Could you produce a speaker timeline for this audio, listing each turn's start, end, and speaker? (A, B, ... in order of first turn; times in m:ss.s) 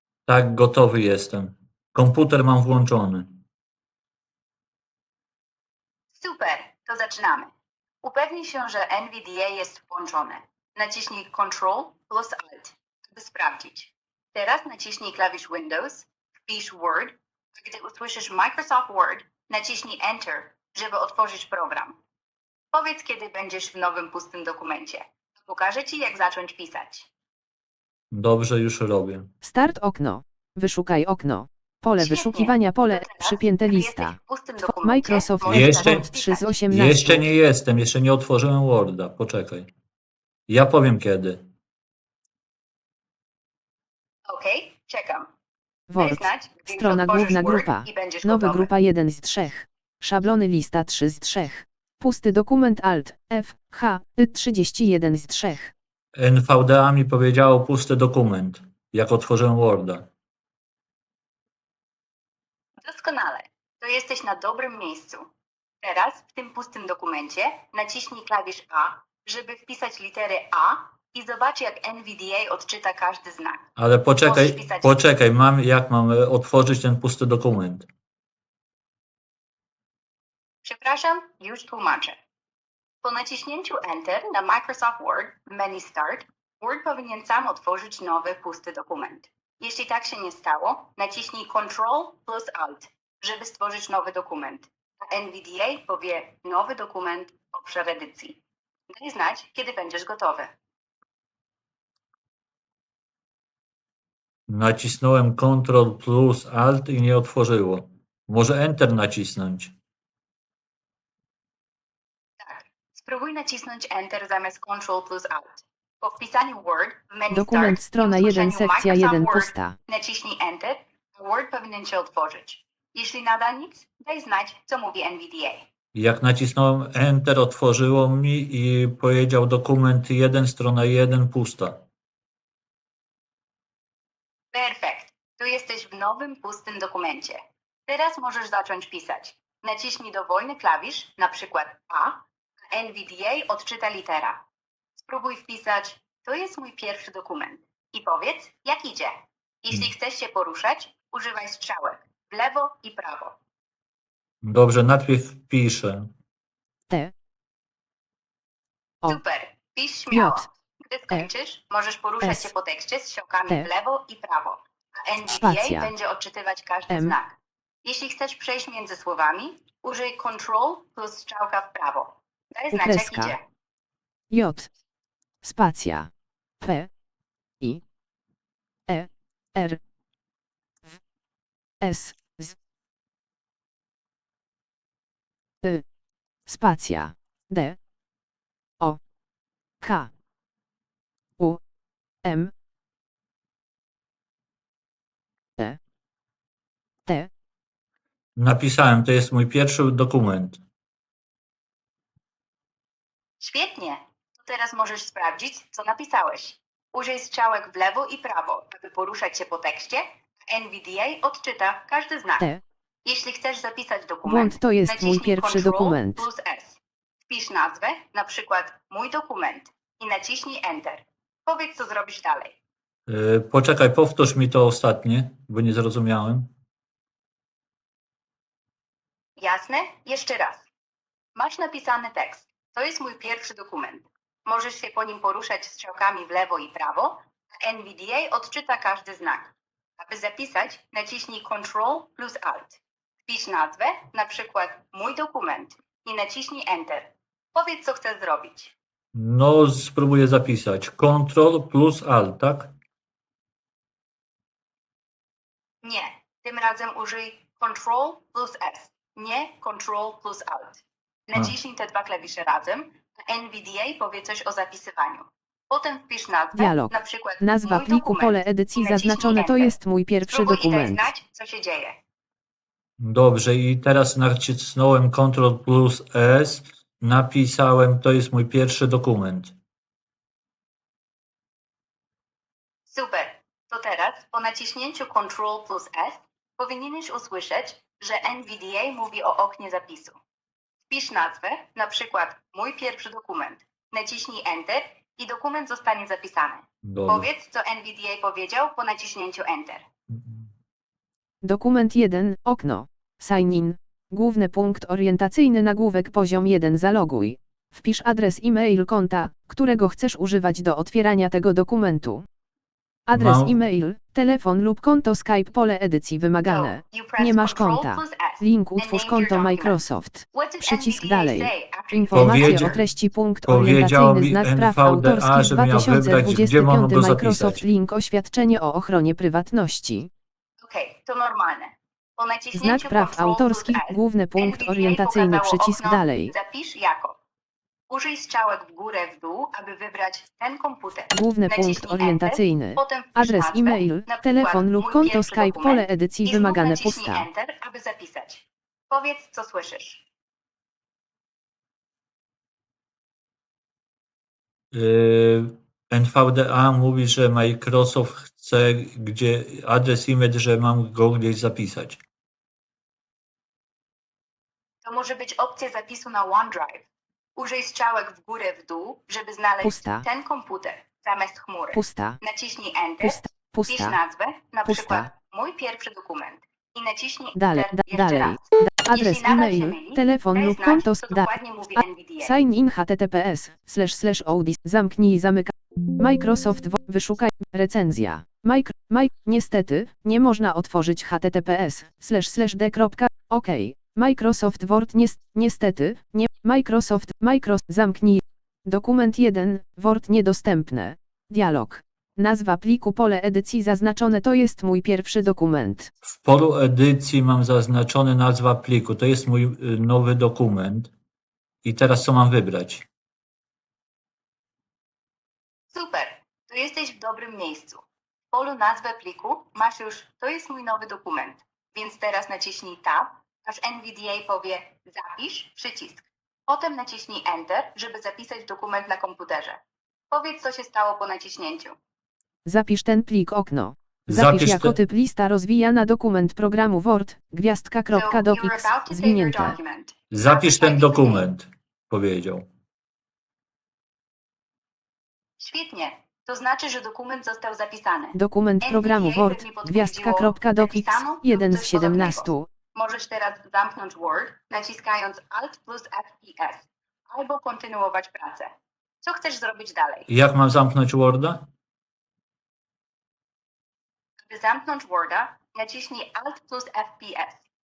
0:00.3-0:03.4 A
0:06.1-0:07.5 B
0:08.0-0:22.0 B
0:22.7-0:27.1 B
0:28.1-0:29.3 A
0:29.4-0:37.3 C
0:32.0-0:36.6 B
0:35.5-0:36.1 A
0:36.7-0:39.7 A
0:40.5-0:41.4 A
0:44.3-0:45.3 B
0:45.9-0:55.7 C
0:46.0-0:48.7 B
0:56.2-1:00.1 A
1:02.8-1:05.3 B
1:05.8-1:13.7 B
1:13.8-1:17.9 A
1:14.2-1:15.0 B
1:20.6-1:22.2 B
1:23.0-1:38.4 B
1:38.9-1:40.5 B
1:44.5-1:49.7 A
1:52.4-2:05.7 B
1:57.3-1:59.8 C
2:06.0-2:11.8 A
2:14.5-2:24.4 B
2:25.0-2:33.3 B
2:34.4-2:36.1 A
2:39.1-2:53.4 B
2:40.1-2:40.5 C
2:42.2-2:42.5 C
2:45.3-2:45.9 C
2:46.9-2:47.2 C
2:52.8-2:53.4 C
2:54.3-2:54.7 C
2:55.4-2:56.1 C
2:56.6-2:56.9 C
2:58.9-2:59.8 C
3:01.8-3:02.6 C
3:06.5-3:07.8 C
3:09.8-3:10.1 C
3:12.2-3:12.5 C
3:18.4-3:20.6 A
3:23.4-3:32.5 B
3:33.0-3:42.6 B
3:34.3-3:36.3 C
3:43.1-3:46.5 A
3:49.4-3:50.7 B
3:51.4-4:08.8 B
4:09.1-4:12.7 A
4:15.8-4:32.0 B
4:26.6-4:31.1 C
4:33.0-4:39.6 A
4:42.9-4:50.2 B
4:50.9-4:59.9 B
4:56.8-4:57.3 A
5:01.4-5:12.2 C
5:13.1-5:30.1 C
5:13.1-5:13.6 A
5:16.4-5:19.8 B
5:20.3-5:22.8 B
5:22.1-5:22.8 A
5:23.5-5:27.6 A
5:30.6-5:37.2 B
5:32.5-5:36.3 C
5:37.9-5:50.0 B
5:41.1-5:47.3 C
5:54.7-6:02.0 A
6:04.8-6:22.4 B
6:09.6-6:10.1 C
6:11.7-6:12.2 C
6:13.0-6:14.0 C
6:14.6-6:15.1 C
6:17.4-6:45.9 C
6:46.0-6:50.9 A
6:51.6-6:52.9 A
6:55.7-7:09.6 B
7:10.1-7:11.8 B
7:12.4-7:19.6 C
7:14.1-7:14.8 A
7:17.9-7:21.3 B
7:20.1-7:22.5 A
7:25.4-7:38.5 B
7:28.2-7:32.5 C
7:39.0-7:40.1 B
7:40.1-7:41.5 A
7:44.3-7:47.4 B